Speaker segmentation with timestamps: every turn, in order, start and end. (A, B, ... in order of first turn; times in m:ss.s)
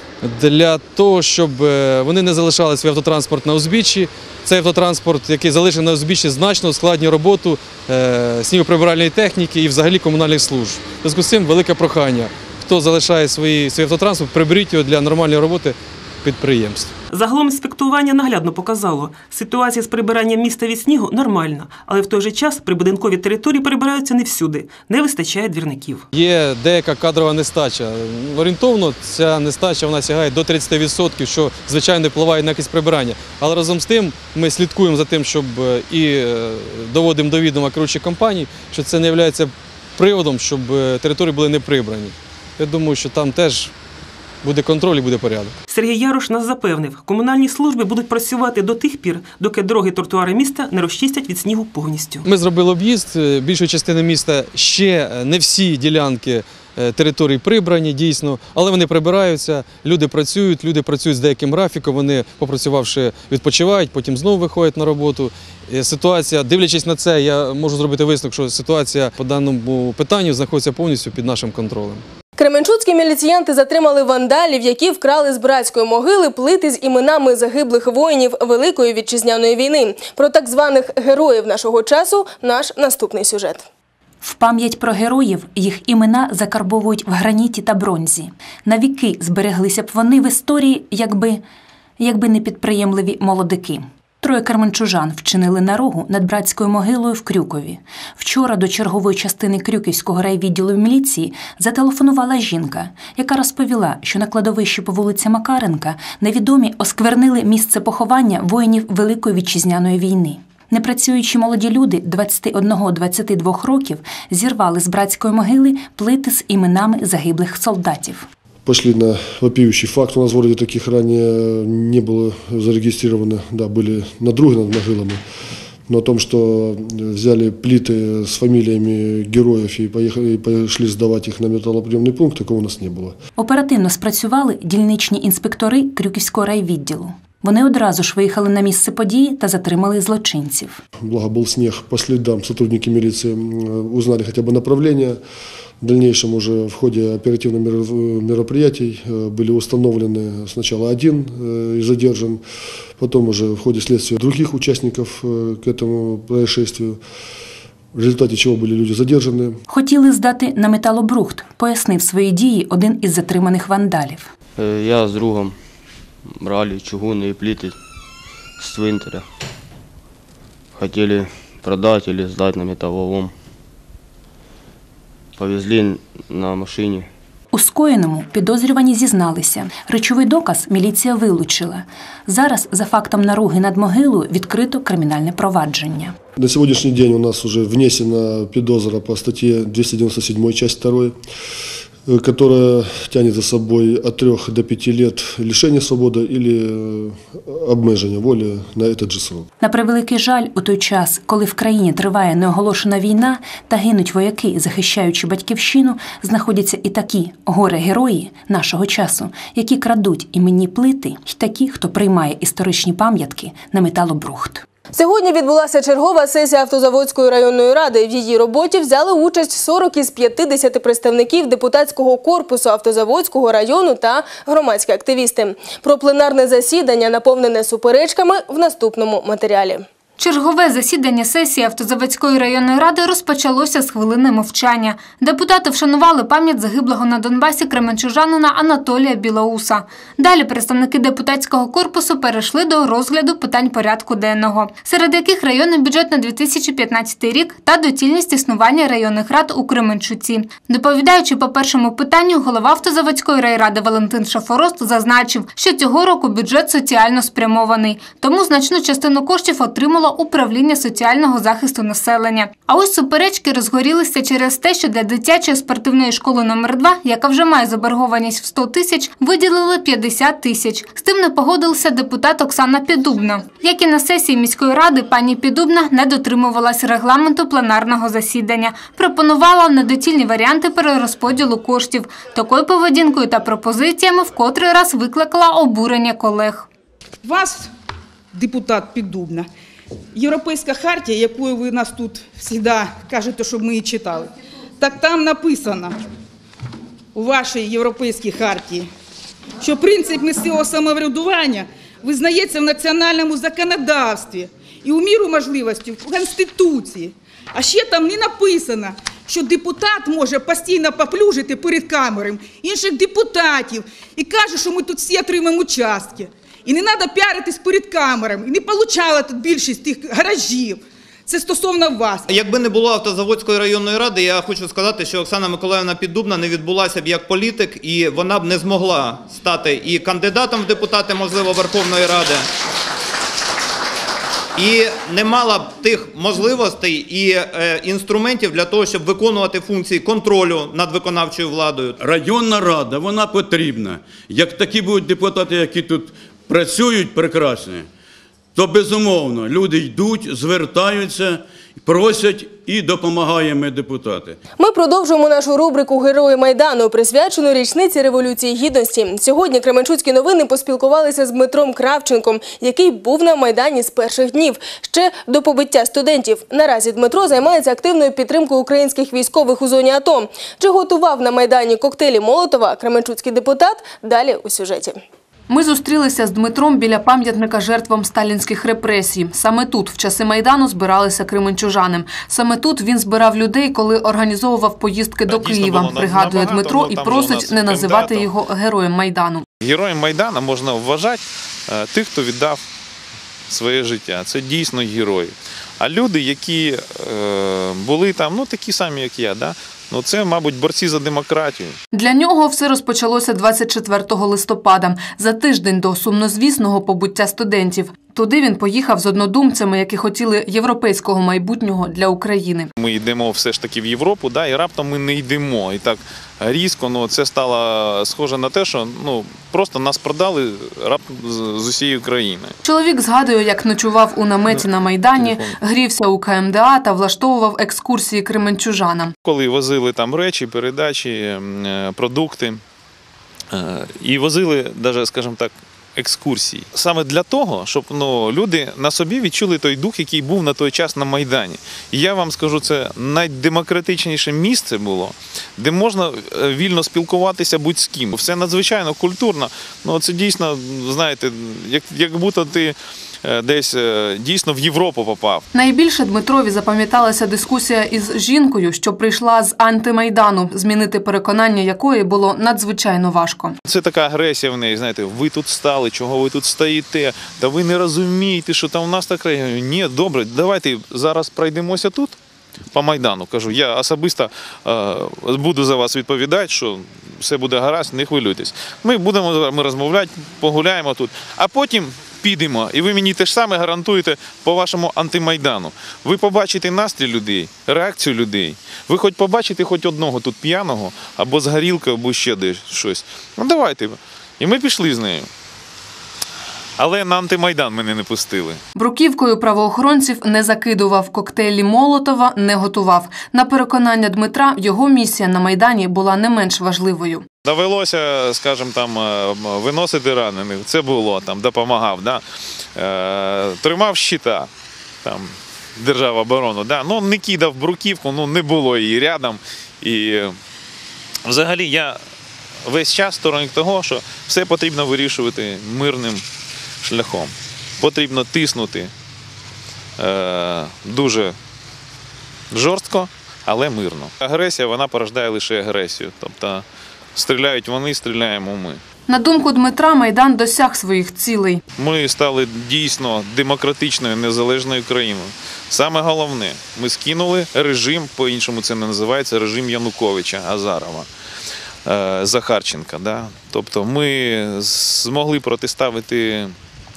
0:00.2-0:16.9 A
0:17.1-0:26.0 B
0:26.1-0:43.7 A
0:44.4-0:45.6 A
0:45.7-0:52.2 B
0:52.2-1:12.0 A
1:12.4-1:23.6 C
1:24.2-1:31.4 D
1:32.0-1:58.2 D
1:58.6-2:05.2 E
2:05.9-2:13.2 E
2:13.4-2:20.7 D
2:21.0-2:25.2 E
2:25.8-2:32.4 E
2:33.0-2:37.0 E
2:37.9-2:39.6 E
2:39.7-2:44.2 D
2:44.6-2:45.6 F
2:46.4-2:47.8 F
2:48.6-2:49.2 F
2:50.8-2:53.3 F
2:55.4-2:57.1 F
2:57.5-3:06.1 D
3:06.4-3:11.1 E
3:12.1-3:19.5 E
3:19.6-3:34.6 D
3:34.9-3:49.8 C
3:50.2-4:46.7 G
4:47.2-4:47.7 H
4:48.3-4:49.5 H
4:50.1-4:56.0 H
4:57.1-4:58.9 H
4:59.6-5:22.2 H
5:22.3-5:32.4 I
5:34.6-5:41.9 I
5:42.0-5:47.9 J
5:48.5-5:54.4 J
5:54.6-6:15.0 C
6:15.5-6:29.4 K
6:25.3-6:28.3 L
6:29.6-6:32.6 L
6:33.5-6:41.8 L
6:41.9-6:52.7 K
6:52.8-7:02.5 L
7:02.6-7:09.1 K
7:04.5-7:05.5 L
7:09.2-7:12.6 L
7:13.5-7:35.4 L
7:35.5-7:43.6 K
7:43.7-7:52.1 L
7:52.7-8:15.3 L
8:16.8-8:18.6 L
8:18.7-8:27.2 K
8:27.4-8:32.2 L
8:32.8-8:34.5 L
8:35.0-8:40.3 L
8:41.2-8:42.0 L
8:42.7-8:46.2 L
8:46.8-8:48.9 L
8:50.0-8:51.3 L
8:52.5-8:56.6 L
8:57.2-8:58.8 L
8:59.1-9:01.6 K
9:01.8-9:11.1 L
9:11.8-9:16.5 L